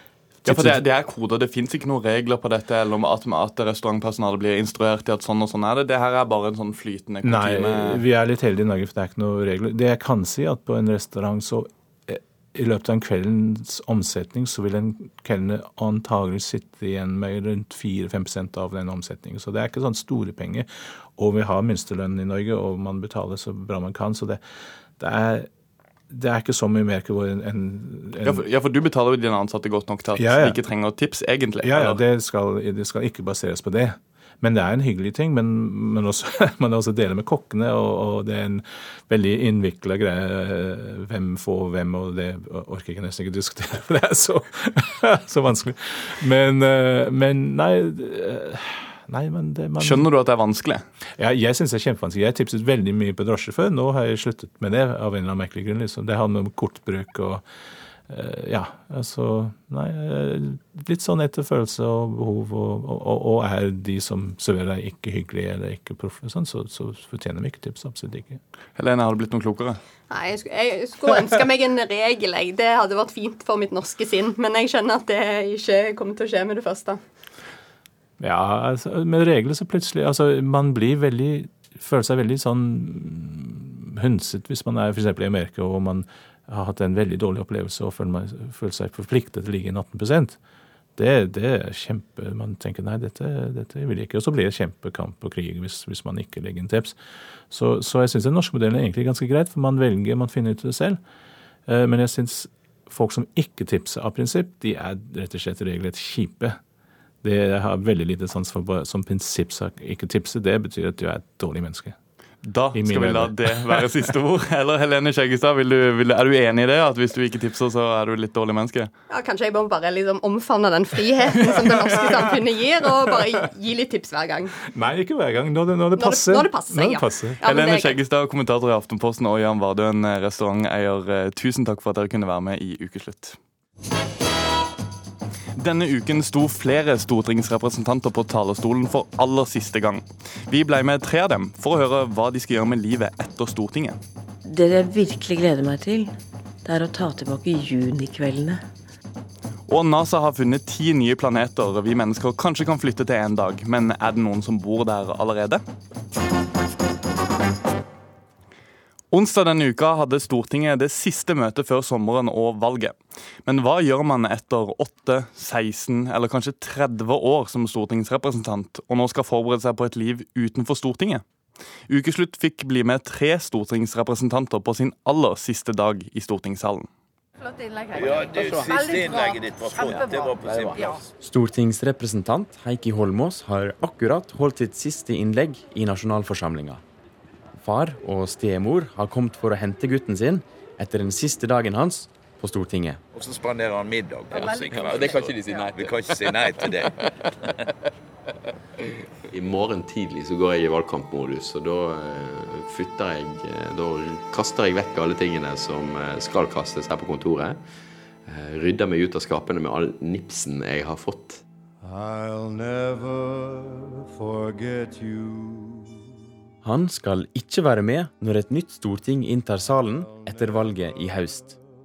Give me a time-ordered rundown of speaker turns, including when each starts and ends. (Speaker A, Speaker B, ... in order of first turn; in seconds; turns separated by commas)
Speaker A: 0.4-0.8, Speaker B: 0.5-8.0, Speaker A: 7.2-24.4, Speaker A: 25.0-25.5, Speaker A: 26.1-28.4, Speaker B: 28.2-32.0, Speaker A: 30.1-30.6, Speaker A: 31.6-50.0, Speaker B: 49.8-50.8, Speaker A: 51.2-57.4, Speaker A: 58.1-68.4, Speaker B: 68.8-69.8, Speaker C: 70.1-77.0, Speaker A: 78.2-90.4, Speaker A: 91.0-97.0, Speaker A: 97.5-101.0, Speaker A: 101.7-106.6, Speaker A: 107.2-112.0, Speaker B: 112.4-118.9, Speaker A: 112.7-113.9, Speaker C: 119.1-124.5, Speaker A: 121.5-122.3, Speaker A: 124.7-127.4, Speaker C: 126.0-128.0, Speaker B: 127.5-133.4, Speaker B: 135.6-144.0, Speaker D: 144.4-148.6, Speaker B: 149.7-155.6, Speaker B: 159.1-171.2, Speaker B: 171.9-176.9, Speaker E: 177.9-181.1, Speaker F: 181.2-186.8, Speaker F: 187.6-193.0, Speaker E: 193.1-197.5, Speaker G: 194.3-196.8, Speaker G: 199.3-207.6, Speaker G: 208.3-211.4, Speaker F: 216.6-221.6